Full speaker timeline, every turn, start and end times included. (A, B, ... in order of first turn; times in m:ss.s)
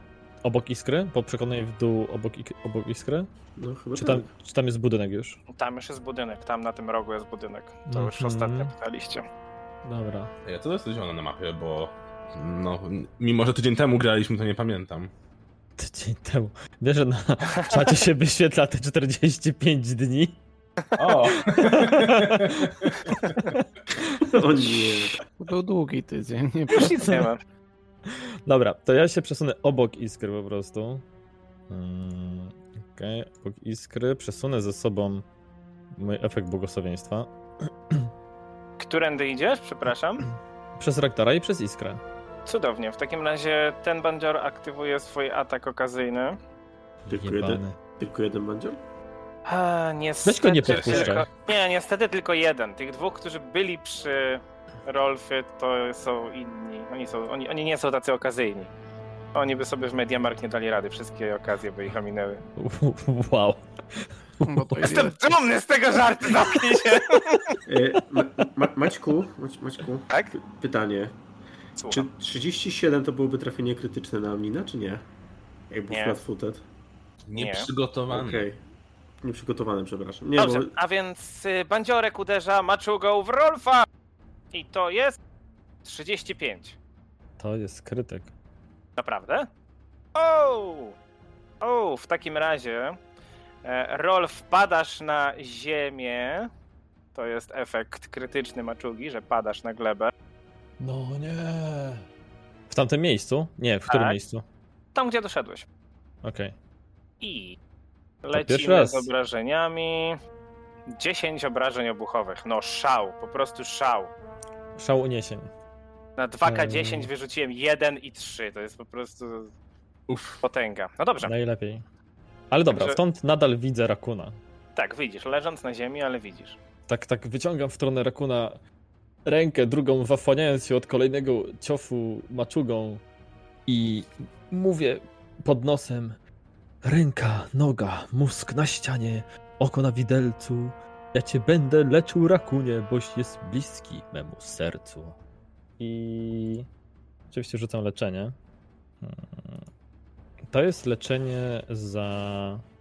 0:00.4-0:03.3 A
0:03.6-0:04.3 B
0:03.9-0:05.4 A
0:05.5-0:09.2 C
0:07.9-0:08.7 A
0:09.8-0:10.3 A
0:10.4-0:15.1 D
0:15.8-0:20.4 A
0:21.0-0:23.5 D
0:21.4-0:24.2 A
0:24.3-0:25.2 B
0:25.4-0:27.1 E
0:26.7-0:27.4 C
0:28.1-0:31.0 A
0:31.7-0:35.2 A
0:35.9-0:38.1 A
0:38.8-0:40.2 C
0:40.2-0:42.0 A
0:42.4-0:46.4 C
0:47.0-0:48.8 B
0:47.1-0:47.8 A
0:49.4-0:58.7 C
0:50.2-0:51.2 A
0:50.6-0:51.2 D
0:59.3-1:02.4 C
1:02.6-1:05.0 A
1:04.4-1:05.2 E
1:04.8-1:07.6 C
1:07.7-1:11.2 B
1:11.8-1:12.1 C
1:11.9-1:15.0 B
1:15.7-1:16.6 B
1:15.9-1:16.2 C
1:17.2-1:18.5 D
1:17.3-1:17.7 C
1:18.1-1:18.6 B
1:19.2-1:20.7 B
1:20.4-1:23.9 C
1:24.5-1:25.2 C
1:25.8-1:26.8 C
1:27.4-1:28.3 A
1:29.0-1:29.5 C
1:30.1-1:30.9 C
1:31.6-1:33.0 C
1:33.6-1:36.5 C
1:37.1-1:40.1 C
1:40.8-1:42.0 A
1:42.7-1:44.4 A
1:43.9-1:44.2 C
1:44.9-1:45.6 C
1:46.2-1:46.5 A
1:47.2-1:47.6 C
1:48.2-1:50.2 C
1:48.3-1:49.1 A
1:50.9-1:54.1 C
1:54.8-1:55.5 A
1:56.2-1:59.5 C
1:56.4-1:57.1 A
2:00.1-2:00.4 D
2:00.4-2:01.3 C
2:01.2-2:01.8 A
2:02.5-2:04.4 A
2:02.7-2:03.0 C
2:04.8-2:06.6 C
2:06.9-2:08.6 A
2:09.2-2:13.0 A
2:13.7-2:16.2 A
2:16.8-2:25.2 A
2:25.8-2:26.7 A
2:27.3-2:28.4 A
2:29.0-2:29.7 A
2:30.5-2:32.6 A